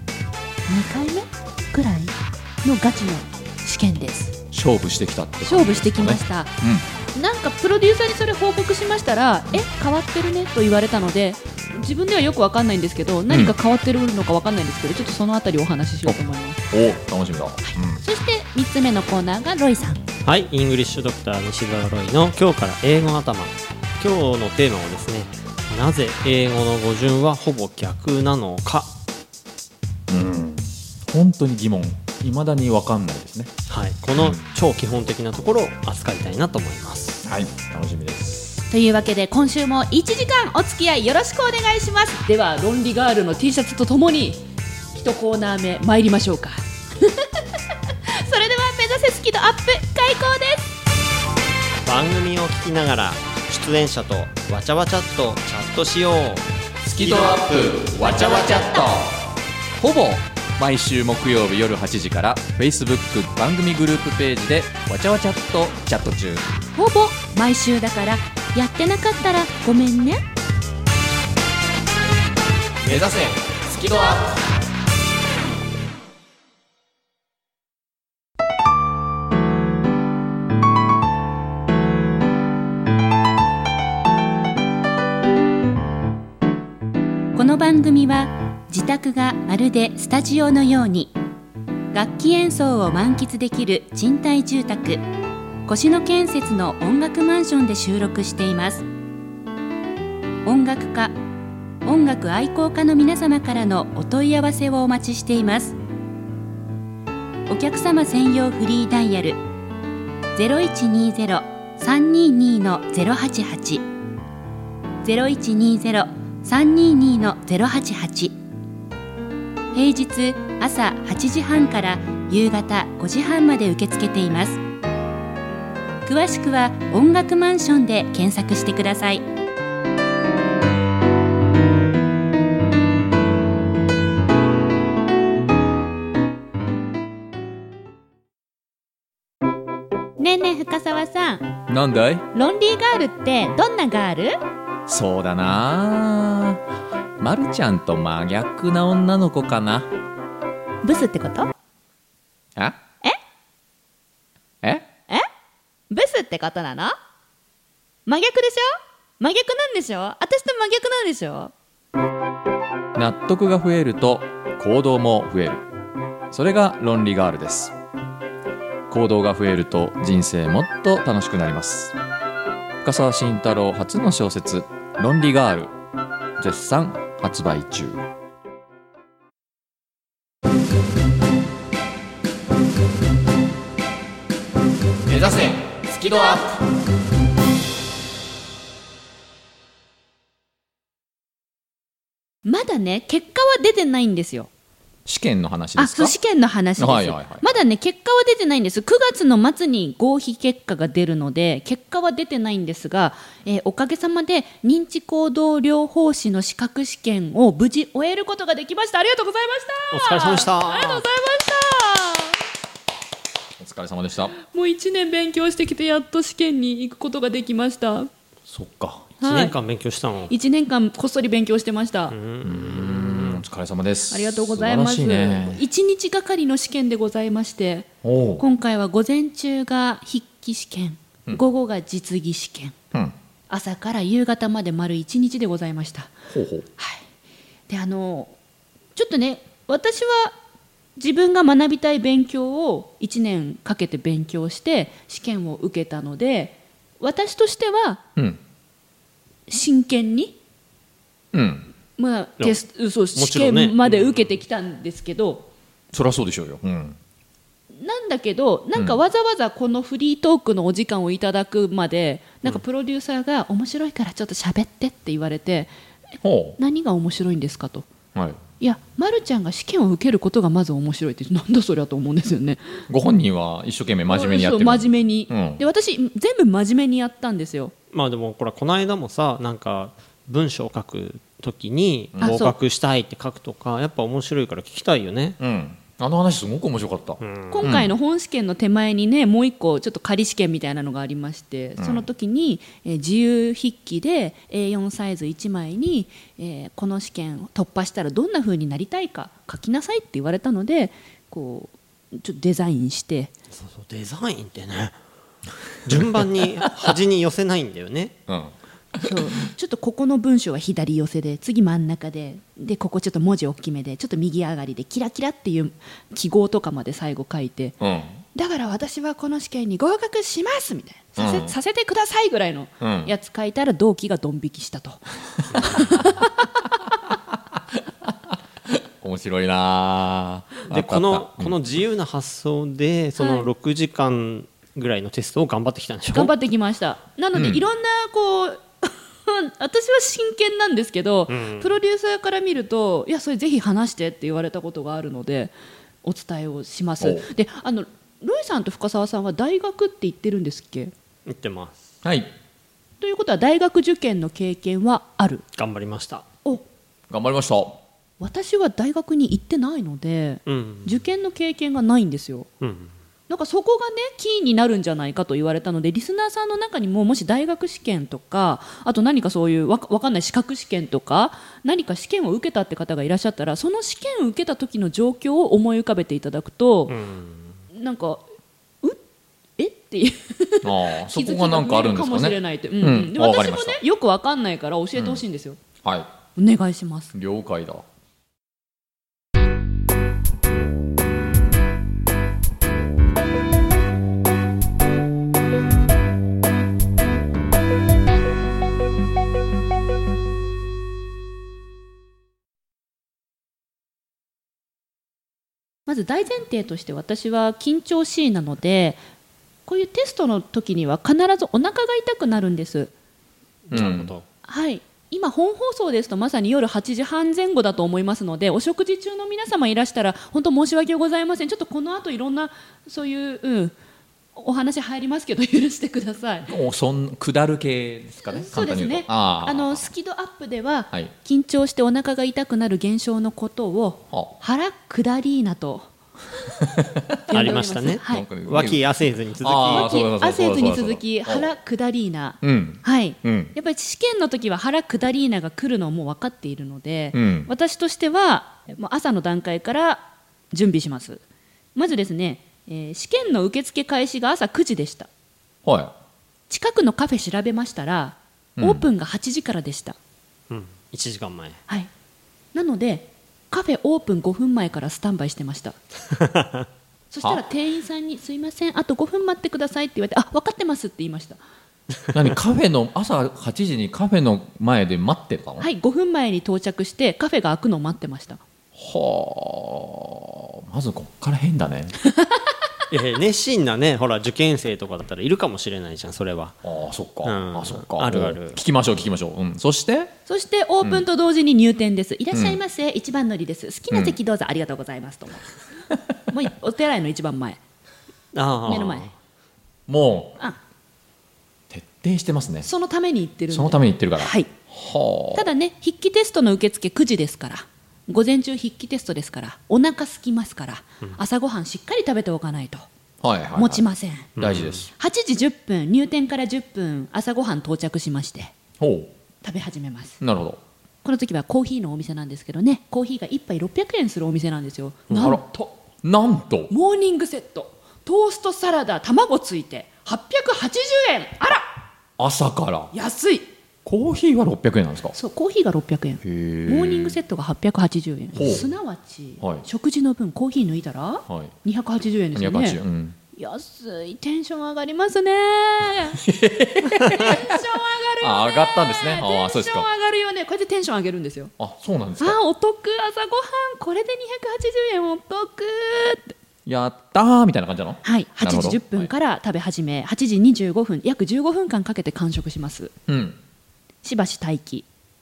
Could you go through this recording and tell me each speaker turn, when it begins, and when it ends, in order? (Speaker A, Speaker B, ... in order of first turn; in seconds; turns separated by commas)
Speaker A: 0.7-4.3, Speaker B: 4.5-6.9, Speaker A: 5.4-6.5, Speaker A: 7.1-16.6, Speaker B: 13.3-13.5, Speaker B: 16.7-18.0, Speaker A: 17.6-20.0, Speaker C: 20.2-28.9, Speaker B: 30.1-33.5, Speaker C: 33.7-37.2, Speaker B: 34.2-34.5, Speaker B: 37.2-38.6, Speaker A: 38.7-47.4, Speaker A: 48.1-50.7, Speaker C: 51.9-56.5, Speaker B: 56.8-59.2, Speaker C: 57.0-57.4, Speaker B: 59.8-66.5, Speaker A: 66.7-70.2, Speaker B: 72.8-74.4, Speaker A: 87.3-91.1, Speaker A: 91.9-95.0, Speaker A: 95.7-98.8, Speaker A: 100.4-101.1, Speaker A: 101.8-105.7, Speaker A: 107.5-109.4, Speaker A: 110.3-113.8, Speaker A: 115.0-118.3, Speaker A: 119.7-124.6, Speaker A: 126.0-129.2, Speaker A: 140.2-141.5, Speaker B: 141.7-142.2, Speaker A: 142.3-144.3, Speaker B: 144.9-146.6, Speaker B: 147.2-149.9, Speaker A: 150.8-151.5, Speaker B: 154.6-154.9, Speaker A: 155.9-157.0, Speaker A: 158.1-161.5, Speaker B: 162.9-165.6, Speaker B: 166.3-167.7, Speaker B: 168.9-171.9, Speaker B: 172.8-175.7, Speaker B: 176.4-178.0, Speaker B: 185.1-186.6, Speaker A: 192.4-194.5, Speaker B: 195.1-196.1, Speaker A: 195.8-212.3, Speaker B: 196.8-197.5, Speaker C: 209.9-211.0, Speaker B: 213.6-214.3, Speaker A: 214.4-218.1, Speaker B: 218.5-219.1, Speaker A: 219.2-219.5, Speaker C: 219.2-220.3, Speaker A: 220.3-222.1, Speaker C: 222.1-223.4, Speaker B: 222.4-225.6, Speaker A: 224.1-227.9, Speaker B: 228.0-228.4, Speaker A: 228.4-232.8, Speaker A: 233.5-236.1, Speaker B: 236.3-236.7, Speaker A: 236.8-237.0, Speaker A: 237.7-238.3, Speaker A: 238.9-240.3, Speaker A: 241.0-248.0, Speaker A: 249.5-250.3, Speaker B: 251.3-251.7, Speaker A: 252.0-255.5, Speaker C: 253.1-254.3, Speaker B: 255.9-257.0, Speaker A: 257.7-265.7, Speaker B: 266.2-266.6, Speaker A: 266.6-267.9, Speaker B: 268.1-268.4, Speaker A: 268.6-272.6, Speaker B: 272.9-275.6, Speaker A: 274.1-277.7, Speaker C: 277.9-285.4, Speaker A: 282.2-282.6, Speaker B: 285.4-287.9, Speaker C: 287.2-287.8, Speaker A: 287.5-303.3, Speaker B: 291.8-292.1, Speaker C: 303.5-304.9, Speaker C: 305.8-308.1, Speaker B: 308.3-309.1, Speaker A: 309.0-317.8, Speaker B: 317.8-318.2, Speaker A: 318.3-325.0, Speaker B: 321.2-321.5, Speaker B: 322.8-323.1, Speaker A: 325.6-326.3, Speaker B: 325.7-326.0, Speaker B: 327.6-331.6, Speaker C: 330.7-336.3, Speaker A: 333.2-333.5, Speaker A: 336.1-350.9, Speaker B: 337.3-337.6, Speaker C: 341.3-341.8, Speaker B: 347.0-347.3, Speaker C: 351.2-351.8, Speaker B: 352.0-352.3, Speaker A: 353.0-355.4, Speaker C: 355.6-356.2, Speaker B: 357.1-357.8, Speaker A: 358.2-362.5, Speaker C: 360.4-361.0, Speaker C: 362.6-362.9, Speaker A: 363.3-376.9, Speaker C: 376.9-377.6, Speaker A: 377.7-378.2, Speaker A: 379.6-385.6, Speaker B: 380.6-383.8, Speaker B: 384.9-385.2, Speaker B: 385.8-386.1, Speaker A: 386.4-387.1, Speaker B: 387.1-387.8, Speaker A: 405.9-409.0, Speaker A: 409.7-412.9, Speaker C: 413.7-414.2, Speaker B: 413.7-414.1, Speaker A: 414.4-423.7, Speaker A: 424.4-426.5, Speaker B: 426.5-429.9, Speaker A: 428.3-435.9, Speaker B: 436.6-437.4, Speaker A: 437.3-438.2, Speaker C: 437.3-439.9, Speaker B: 438.0-441.5, Speaker A: 439.7-451.2, Speaker B: 442.4-443.5, Speaker B: 447.1-447.5, Speaker A: 451.7-455.1, Speaker B: 455.6-455.9, Speaker A: 456.5-460.0, Speaker B: 458.6-458.9, Speaker C: 460.5-461.6, Speaker A: 462.5-465.8, Speaker C: 466.1-466.6, Speaker A: 467.1-471.4, Speaker B: 472.1-475.7, Speaker A: 475.6-478.4, Speaker B: 478.7-481.9, Speaker C: 482.9-486.6, Speaker B: 486.6-490.1, Speaker C: 487.2-488.6, Speaker A: 490.3-495.4, Speaker B: 490.8-491.1, Speaker B: 492.3-492.6, Speaker B: 493.9-494.2, Speaker A: 496.3-497.6, Speaker C: 498.3-499.1, Speaker A: 498.7-499.1, Speaker B: 499.9-500.4, Speaker B: 501.7-502.7, Speaker A: 502.6-504.5, Speaker B: 503.5-505.5, Speaker A: 505.3-512.9, Speaker B: 513.2-513.8, Speaker A: 513.5-514.3, Speaker C: 514.4-514.9, Speaker B: 514.4-514.9, Speaker A: 515.0-518.5, Speaker B: 518.8-519.1, Speaker A: 519.4-520.2, Speaker B: 520.2-520.6, Speaker A: 521.0-525.7, Speaker C: 525.1-525.4, Speaker B: 526.0-526.7, Speaker A: 526.7-531.7, Speaker B: 532.2-532.9, Speaker A: 532.9-533.5, Speaker B: 533.8-535.1, Speaker A: 535.1-542.8, Speaker B: 536.2-537.2, Speaker B: 538.3-538.6, Speaker B: 539.4-539.6, Speaker B: 541.3-541.5, Speaker B: 542.3-543.2, Speaker A: 543.4-546.2, Speaker B: 546.2-549.9, Speaker A: 547.0-551.5, Speaker B: 551.6-552.4, Speaker A: 552.2-556.3, Speaker B: 556.6-559.1, Speaker A: 558.0-562.9, Speaker B: 563.1-563.4, Speaker A: 564.0-564.9